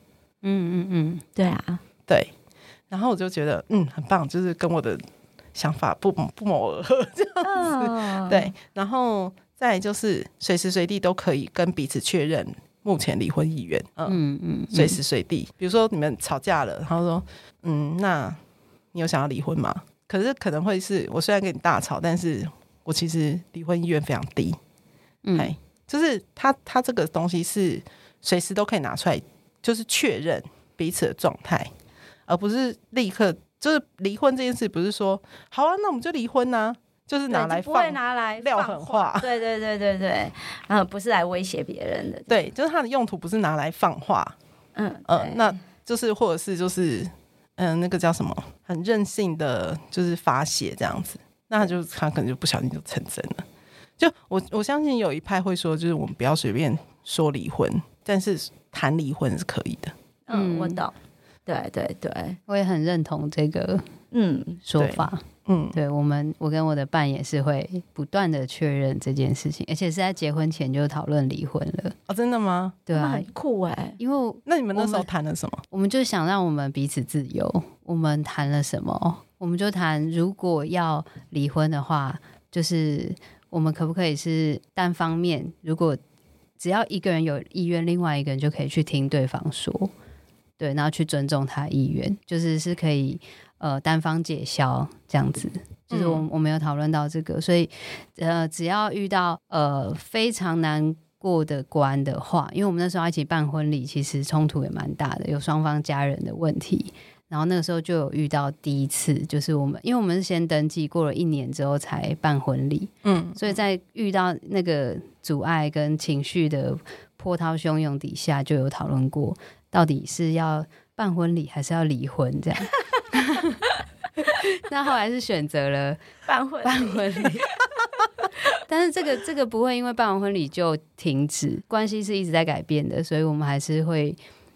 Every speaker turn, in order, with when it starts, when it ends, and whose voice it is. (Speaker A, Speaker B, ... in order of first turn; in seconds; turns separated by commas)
Speaker A: 0.4-1.2, Speaker B: 1.4-1.8, Speaker C: 2.9-5.0, Speaker C: 5.5-14.2, Speaker B: 7.4-8.5, Speaker A: 14.1-15.0, Speaker C: 14.7-18.4, Speaker C: 18.9-24.6, Speaker A: 25.2-25.5, Speaker C: 25.3-31.7, Speaker C: 32.3-39.3, Speaker B: 37.3-42.3, Speaker C: 42.3-44.4, Speaker B: 44.8-45.6, Speaker C: 45.1-53.4, Speaker C: 54.0-59.9, Speaker B: 60.3-60.9, Speaker A: 60.3-60.8, Speaker B: 61.5-62.4, Speaker A: 62.5-63.9, Speaker B: 64.1-64.6, Speaker A: 64.7-65.2, Speaker C: 64.8-65.8, Speaker A: 65.7-72.0, Speaker C: 72.1-72.8, Speaker A: 72.9-73.3, Speaker B: 72.9-74.0, Speaker A: 74.0-75.1, Speaker C: 74.5-75.6, Speaker A: 75.7-86.0, Speaker A: 86.6-89.9, Speaker A: 90.6-123.6, Speaker C: 95.9-96.2, Speaker C: 113.0-113.5, Speaker A: 124.2-126.0, Speaker B: 126.3-127.4, Speaker A: 126.6-127.5, Speaker A: 128.6-134.2